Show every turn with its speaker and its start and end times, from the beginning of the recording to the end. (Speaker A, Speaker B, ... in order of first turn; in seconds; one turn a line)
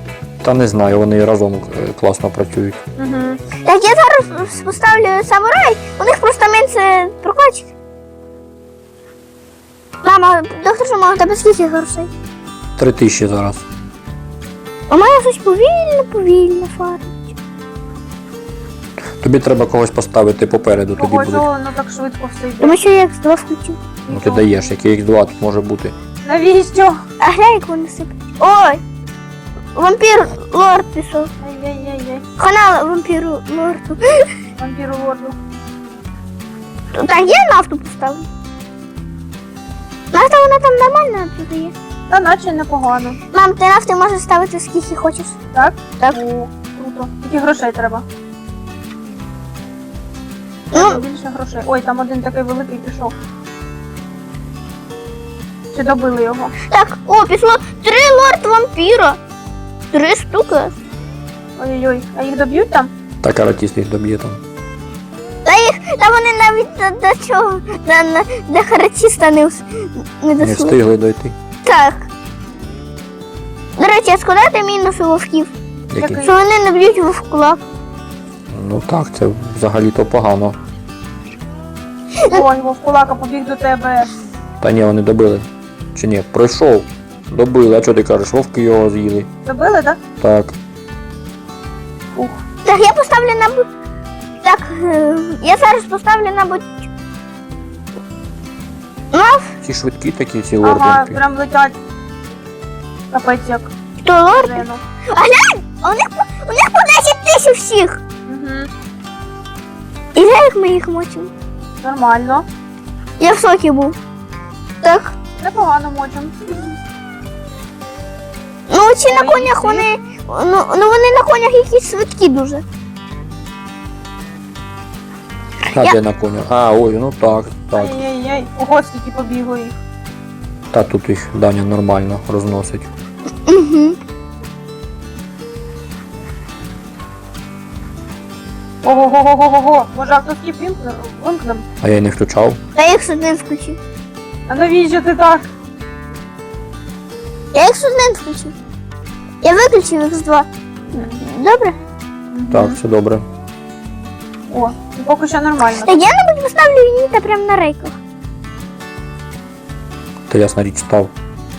Speaker A: 0.4-2.8
Speaker B: 3.0-3.4
Speaker C: 3.6-7.7
Speaker C: 10.0-12.1
Speaker A: 12.8-13.6
Speaker C: 14.9-17.2
Speaker A: 19.2-21.5
Speaker B: 21.0-22.8
Speaker C: 22.6-23.8
Speaker B: 24.1-24.5
Speaker A: 24.1-25.9
Speaker B: 26.2-27.0
Speaker C: 27.2-28.8
Speaker C: 29.7-31.3
Speaker B: 31.4-32.2
Speaker C: 32.4-34.3
Speaker B: 34.6-35.4
Speaker C: 36.9-38.3
Speaker C: 40.1-41.7
Speaker B: 42.1-43.2
Speaker C: 43.3-45.3
Speaker B: 45.5-48.0
Speaker C: 50.7-51.0
Speaker B: 50.7-53.1
Speaker B: 55.7-56.5
Speaker C: 56.7-59.2
Speaker C: 59.9-60.8
Speaker B: 61.6-62.9
Speaker A: 63.2-64.4
Speaker C: 65.4-70.8
Speaker A: 70.4-71.3
Speaker C: 71.6-72.1
Speaker C: 73.8-75.5
Speaker A: 75.9-76.2
Speaker B: 76.0-76.3
Speaker C: 76.1-77.6
Speaker A: 78.5-80.6
Speaker C: 82.2-82.4
Speaker B: 82.3-84.1
Speaker A: 84.6-89.3
Speaker B: 89.4-90.0
Speaker A: 90.2-90.5
Speaker C: 92.6-93.7
Speaker C: 94.4-96.8
Speaker C: 99.1-99.5
Speaker A: 99.6-101.2
Speaker B: 100.6-101.7
Speaker B: 103.1-103.7
Speaker C: 104.0-108.0
Speaker B: 104.3-104.8
Speaker B: 108.2-108.7
Speaker C: 110.1-111.3
Speaker B: 111.8-112.5
Speaker C: 113.2-114.0
Speaker C: 114.8-115.1
Speaker B: 115.4-116.8
Speaker C: 118.7-122.6
Speaker B: 119.1-119.8
Speaker C: 125.7-126.0
Speaker A: 125.7-128.0
Speaker B: 127.7-129.7
Speaker A: 130.7-132.9
Speaker C: 133.4-134.0
Speaker B: 138.8-141.6
Speaker A: 141.8-142.6
Speaker C: 142.8-143.8
Speaker B: 144.5-145.5
Speaker C: 147.5-148.5
Speaker C: 149.4-151.8
Speaker B: 150.9-151.2
Speaker B: 152.3-152.8
Speaker A: 152.5-153.2
Speaker B: 154.5-156.0
Speaker C: 155.8-158.0
Speaker A: 160.3-161.1